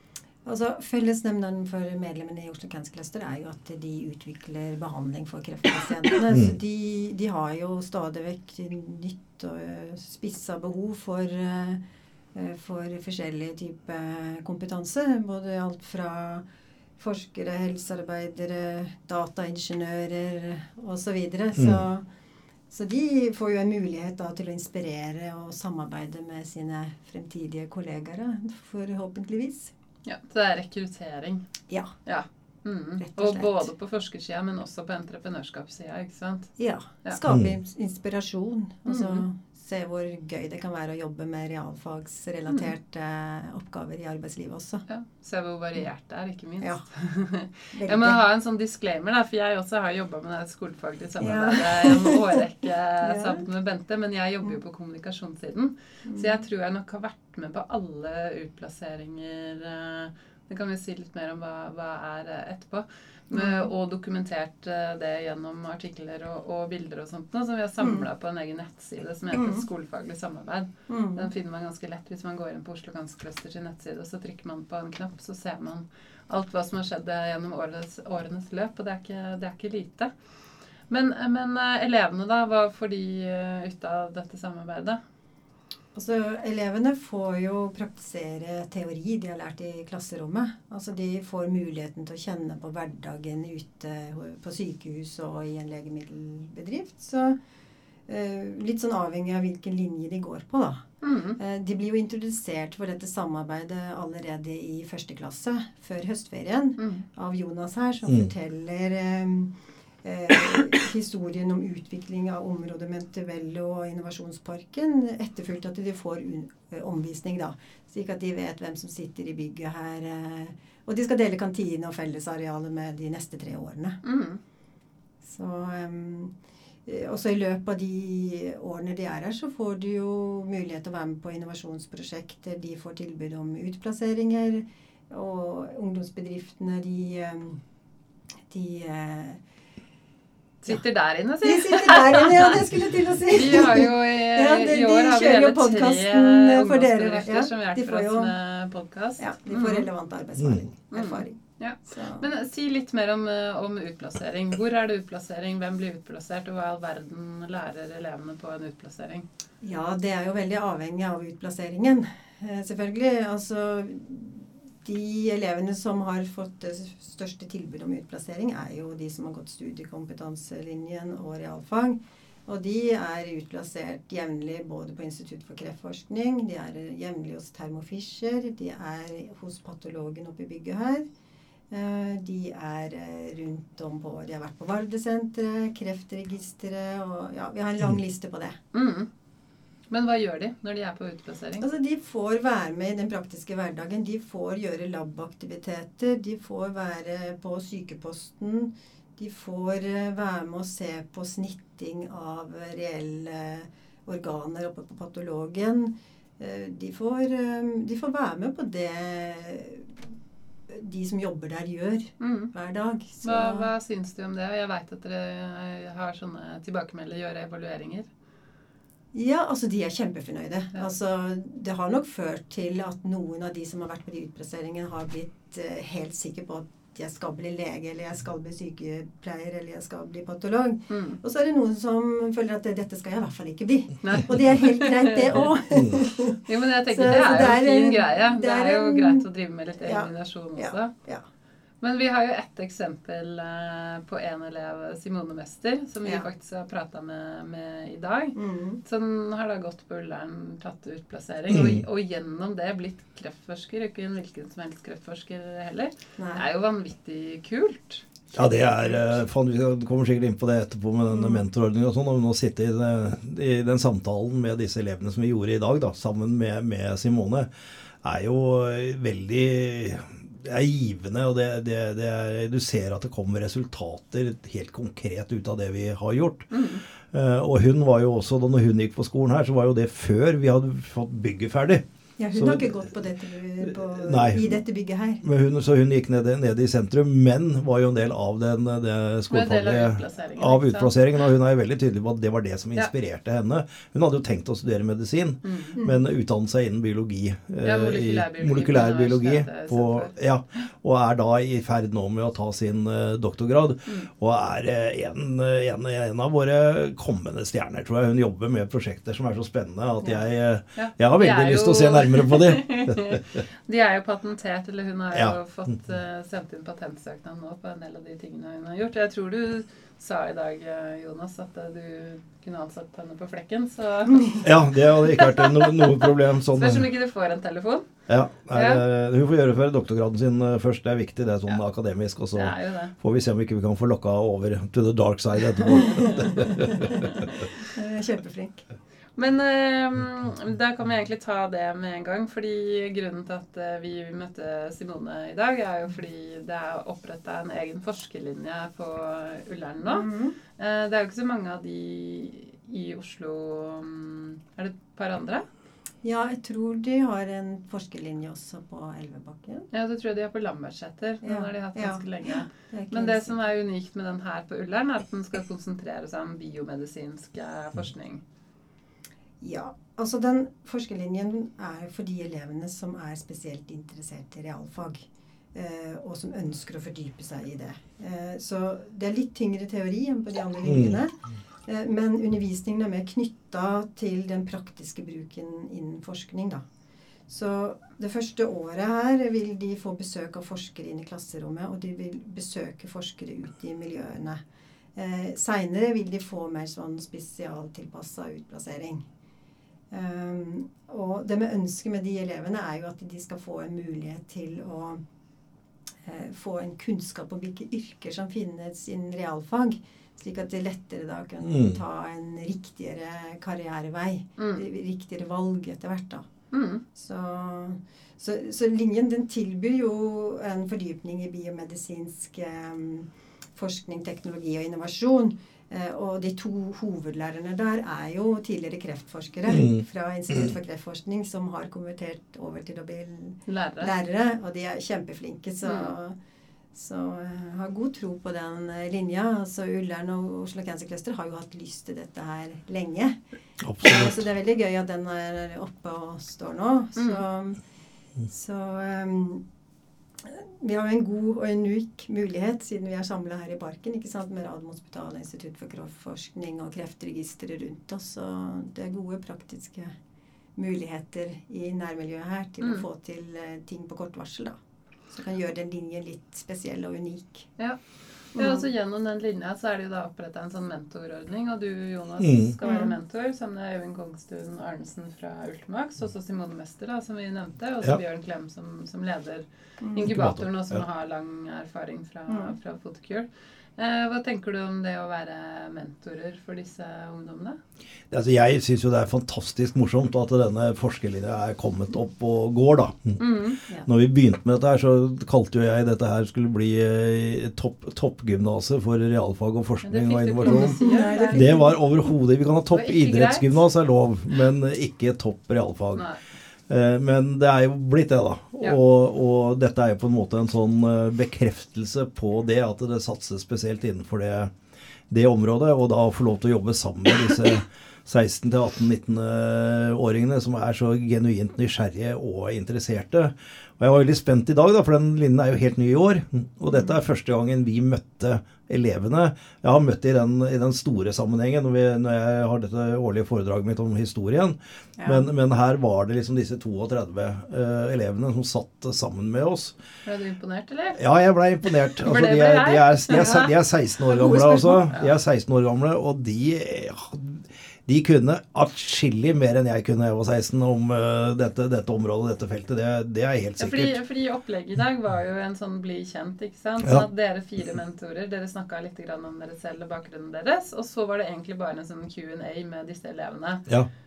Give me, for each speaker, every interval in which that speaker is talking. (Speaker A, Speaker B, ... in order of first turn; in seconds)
Speaker A: 0.4-11.8, 12.3-16.4, 17.0-22.1, 22.7-29.7, 31.7-31.9, 33.0-33.7, 36.6-44.9, 47.7-48.2, 51.2-52.4, 53.0-53.4, 56.0-56.4, 63.3-63.7, 67.8-68.0, 69.3-69.6, 70.9-71.3, 85.9-97.4, 98.1-100.8, 101.4-124.0, 125.2-126.3, 126.8-137.6, 138.5-139.4, 141.4-148.3, 149.2-152.2, 159.6-181.1, 181.7-188.6, 191.6-210.1, 210.7-213.7, 219.1-239.2, 239.8-241.2, 248.3-248.8, 256.2-256.4, 261.1-261.4, 282.2-285.2, 295.8-296.1, 337.6-338.6, 349.8-350.4, 356.0-359.7, 361.2-363.4, 369.4-386.6, 387.3-394.4, 394.9-399.0, 399.9-405.0, 406.0-416.3, 416.9-436.1, 436.7-443.2, 443.8-447.6, 448.3-449.4, 450.2-459.9, 460.6-464.6, 465.1-467.5, 468.3-468.6, 472.6-472.9, 479.8-480.1, 482.3-482.5, 500.4-501.8, 543.2-543.5, 544.0-544.9
Speaker B: 21.6-21.8, 37.2-37.5, 150.4-150.6, 251.5-251.8, 258.3-267.5, 268.0-276.5, 277.1-282.8, 283.7-284.6, 285.2-313.4, 324.4-326.9, 328.1-337.2, 380.6-381.0, 411.4-411.8, 429.5-429.8, 443.6-444.2, 472.2-472.5, 480.0-480.8, 488.1-493.2, 493.9-506.1, 506.7-514.5, 515.1-539.7, 541.0-554.0
Speaker C: 30.1-31.4, 32.0-36.5, 38.9-39.2, 44.9-80.1, 80.9-85.0, 101.0-101.4, 106.8-107.0, 124.0-124.4, 140.6-142.7, 143.3-149.9, 150.9-159.2, 188.7-189.1, 189.9-191.7, 212.2-212.5, 213.2-218.1, 230.9-231.2, 234.0-240.9, 241.8-259.0, 276.5-276.8, 289.3-290.9, 295.4-295.8, 297.6-300.1, 310.7-327.9, 328.5-328.8, 332.3-332.9, 335.7-336.2, 336.9-337.5, 339.2-355.4, 359.7-368.2, 414.4-414.6, 416.5-416.8, 433.5-433.9, 435.6-435.9, 446.9-447.2, 468.3-487.6, 493.2-493.6, 499.8-501.4, 502.7-503.6, 505.9-506.2, 540.0-541.0, 542.0-543.5, 553.6-563.6